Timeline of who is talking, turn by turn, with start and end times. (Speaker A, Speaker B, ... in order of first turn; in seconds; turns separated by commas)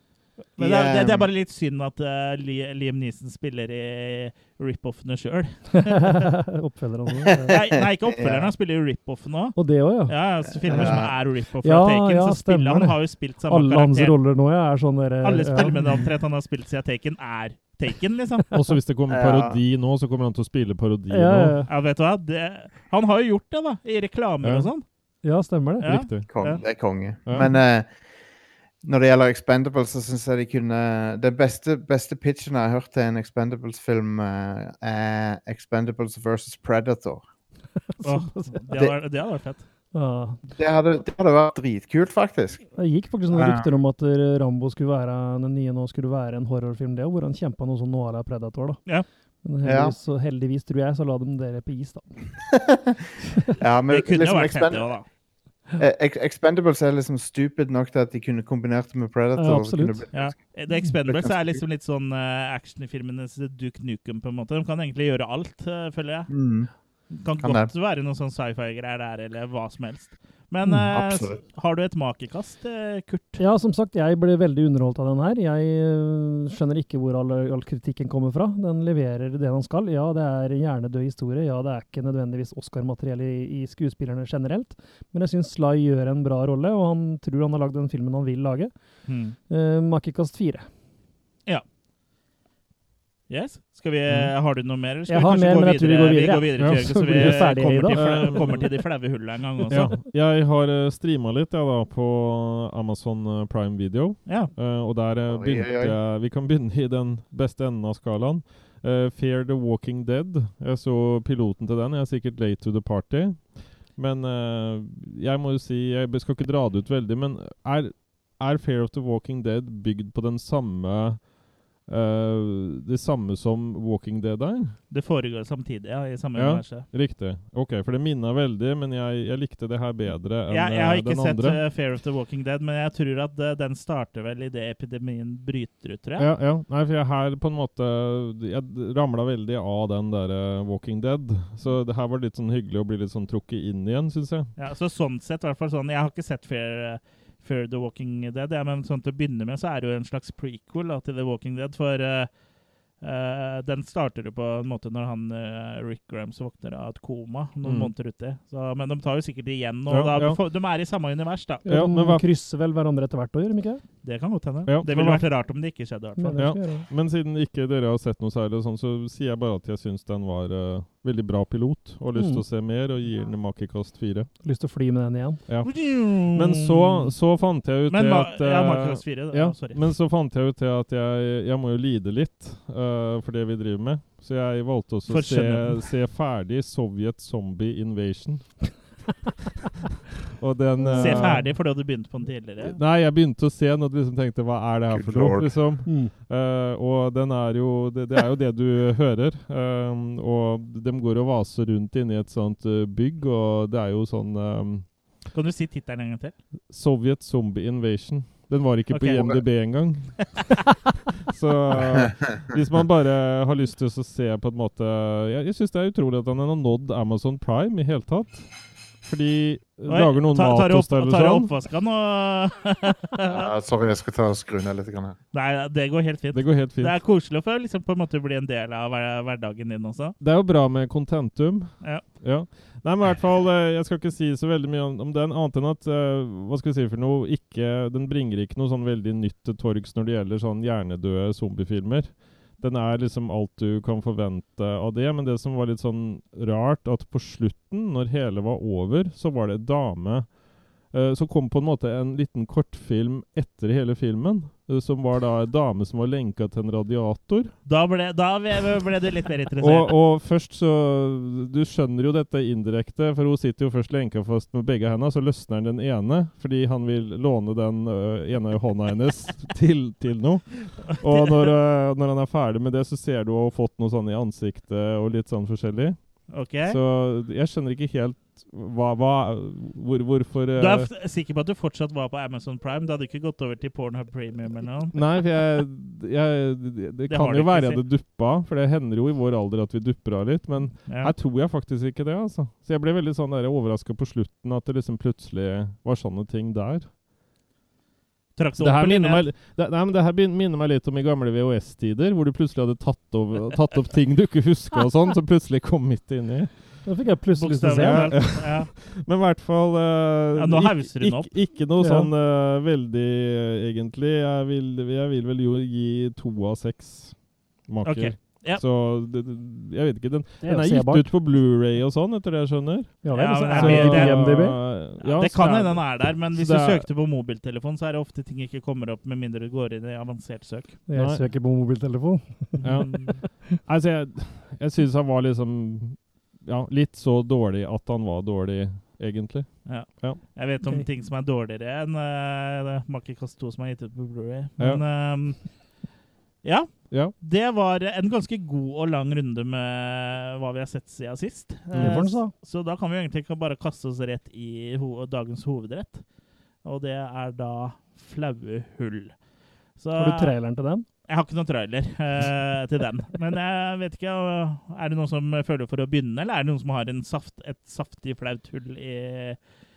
Speaker A: 0.6-6.3, Speaker B: 0.6-1.3, Speaker C: 5.7-7.5, Speaker B: 7.5-8.5, Speaker A: 7.5-14.1, Speaker C: 9.6-10.1, Speaker B: 10.6-11.1, Speaker C: 10.7-11.0, Speaker C: 11.6-13.0, Speaker C: 13.5-16.1, Speaker A: 15.2-18.6, Speaker D: 18.5-21.6, Speaker B: 19.1-19.6, Speaker C: 21.1-21.7, Speaker A: 21.7-24.8, Speaker D: 24.4-24.7, Speaker C: 25.2-25.9, Speaker A: 25.8-26.6, Speaker D: 25.8-26.3, Speaker B: 26.3-27.9, Speaker B: 28.8-37.2, Speaker C: 37.9-38.6, Speaker A: 38.0-39.6, Speaker C: 39.9-40.4, Speaker B: 40.5-42.6, Speaker C: 42.7-48.8, Speaker B: 43.3-43.6, Speaker C: 49.4-52.1, Speaker B: 49.6-49.9, Speaker B: 52.5-52.9, Speaker B: 53.6-54.9, Speaker A: 53.9-55.0, Speaker B: 55.8-60.4, Speaker C: 59.4-60.0, Speaker A: 60.1-66.3, Speaker B: 61.0-61.6, Speaker B: 66.3-66.7, Speaker A: 67.1-73.4, Speaker B: 67.4-67.7, Speaker B: 70.9-71.4, Speaker C: 73.4-88.7, Speaker A: 89.1-89.3, Speaker C: 89.5-90.6, Speaker A: 93.3-99.9, Speaker C: 95.1-98.4, Speaker D: 96.6-98.7, Speaker D: 99.7-121.3, Speaker A: 104.2-104.5, Speaker B: 105.3-106.0, Speaker D: 121.8-124.8, Speaker A: 124.9-126.9, Speaker D: 126.3-131.6, Speaker A: 130.5-136.3, Speaker D: 136.2-144.5, Speaker A: 144.6-152.3, Speaker A: 153.0-161.6, Speaker D: 157.6-157.9, Speaker D: 159.9-160.4, Speaker C: 161.6-163.8, Speaker D: 161.7-162.2, Speaker A: 164.0-166.4, Speaker D: 164.7-165.2, Speaker C: 166.2-166.8, Speaker D: 166.4-174.3, Speaker C: 172.1-172.4, Speaker C: 174.4-175.4, Speaker D: 175.5-188.7, Speaker A: 175.6-177.1, Speaker A: 177.9-179.8, Speaker A: 185.1-185.8, Speaker D: 190.3-191.5, Speaker C: 190.8-191.4, Speaker A: 190.9-192.8, Speaker D: 192.6-204.9, Speaker B: 194.9-195.6, Speaker C: 195.8-196.1, Speaker A: 205.3-206.3, Speaker D: 206.7-210.7, Speaker A: 208.9-209.4, Speaker A: 210.2-210.6, Speaker D: 211.3-221.5, Speaker A: 219.9-223.5, Speaker B: 223.3-225.2, Speaker A: 225.3-230.1, Speaker D: 226.3-226.9, Speaker D: 230.2-257.5, Speaker A: 257.6-259.9, Speaker D: 259.6-280.9, Speaker A: 270.8-271.5, Speaker A: 276.3-276.8, Speaker A: 280.6-285.0, Speaker D: 284.9-296.9, Speaker A: 287.1-287.8, Speaker A: 290.9-291.1, Speaker A: 298.4-299.3, Speaker D: 298.6-306.7, Speaker C: 306.8-308.1, Speaker A: 307.4-308.7, Speaker D: 307.7-326.8, Speaker A: 310.3-311.4, Speaker C: 311.8-312.1, Speaker A: 317.8-318.6, Speaker C: 320.4-321.1, Speaker C: 323.0-324.6, Speaker A: 323.1-324.5, Speaker A: 325.0-330.8, Speaker C: 330.9-333.4, Speaker D: 330.9-331.2, Speaker D: 332.6-340.2, Speaker A: 332.7-333.2, Speaker A: 339.6-345.5, Speaker A: 346.4-356.0, Speaker D: 351.7-352.0, Speaker C: 351.8-352.3, Speaker A: 356.6-359.2, Speaker A: 359.8-360.3, Speaker C: 360.0-360.8, Speaker A: 361.1-369.4